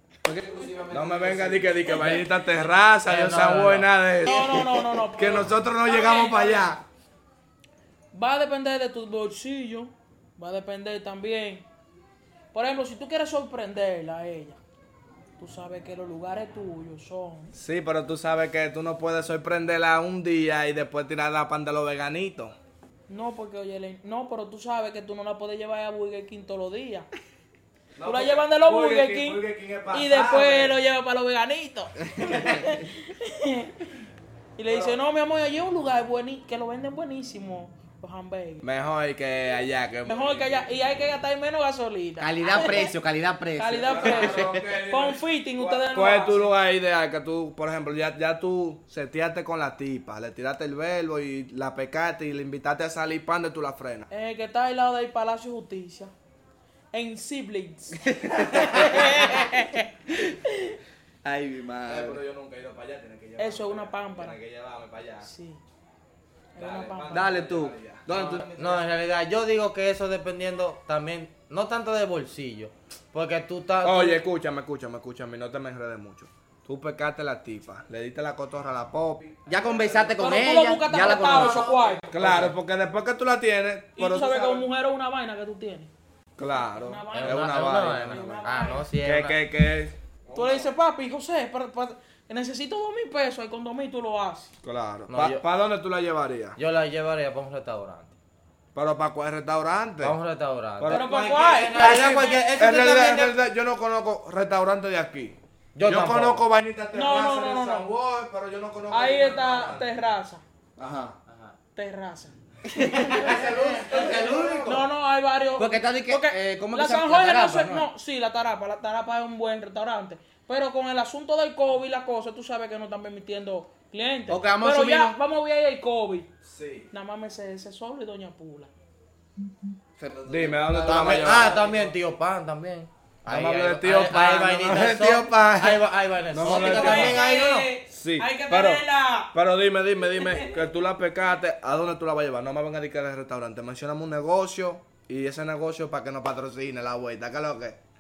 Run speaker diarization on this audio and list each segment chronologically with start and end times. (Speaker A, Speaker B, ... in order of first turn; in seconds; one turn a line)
Speaker A: 0.2-2.1
Speaker B: 0.9-6.8
Speaker C: 2.0-2.3
Speaker D: 3.1-3.9
Speaker C: 4.2-6.8
Speaker A: 4.3-4.6
Speaker C: 8.1-11.7
Speaker C: 12.5-14.6
Speaker C: 15.4-17.5
Speaker B: 17.5-22.6
Speaker C: 23.1-27.1
Speaker B: 28.0-30.8
Speaker C: 28.0-33.8
Speaker A: 32.1-32.8
Speaker C: 34.6-38.6
Speaker B: 34.7-35.0
Speaker B: 38.6-40.6
Speaker C: 40.1-42.9
Speaker A: 42.2-44.6
Speaker C: 43.6-46.5
Speaker B: 43.9-54.1
Speaker C: 54.1-56.1
Speaker C: 56.9-60.7
Speaker A: 58.1-59.4
Speaker A: 61.2-62.2
Speaker B: 61.9-65.3
Speaker C: 63.4-64.4
Speaker C: 65.2-65.6
Speaker C: 66.5-67.3
Speaker B: 66.6-68.8
Speaker A: 67.1-68.5
Speaker D: 68.1-74.2
Speaker B: 73.8-80.2
Speaker A: 79.5-82.5
Speaker C: 80.2-82.3
Speaker B: 81.3-84.7
Speaker C: 84.0-85.9
Speaker B: 86.4-90.7
Speaker C: 86.5-88.9
Speaker D: 87.1-89.4
Speaker C: 90.3-94.5
Speaker B: 94.6-96.6
Speaker D: 95.1-95.4
Speaker D: 96.6-98.2
Speaker B: 98.8-100.2
Speaker D: 100.0-103.4
Speaker B: 100.8-101.1
Speaker C: 100.8-102.0
Speaker B: 101.7-109.9
Speaker A: 101.8-102.2
Speaker D: 105.8-106.5
Speaker C: 106.9-107.9
Speaker C: 108.9-110.4
Speaker A: 110.8-111.2
Speaker D: 111.3-111.5
Speaker C: 111.8-113.4
Speaker A: 112.7-114.9
Speaker B: 113.3-114.7
Speaker C: 114.7-126.3
Speaker A: 115.6-117.9
Speaker A: 124.3-125.2
Speaker B: 126.4-126.9
Speaker C: 126.9-128.7
Speaker A: 130.0-131.7
Speaker B: 130.3-131.9
Speaker D: 130.8-137.7
Speaker B: 133.3-137.3
Speaker C: 136.4-139.3
Speaker B: 137.9-147.8
Speaker C: 140.1-140.6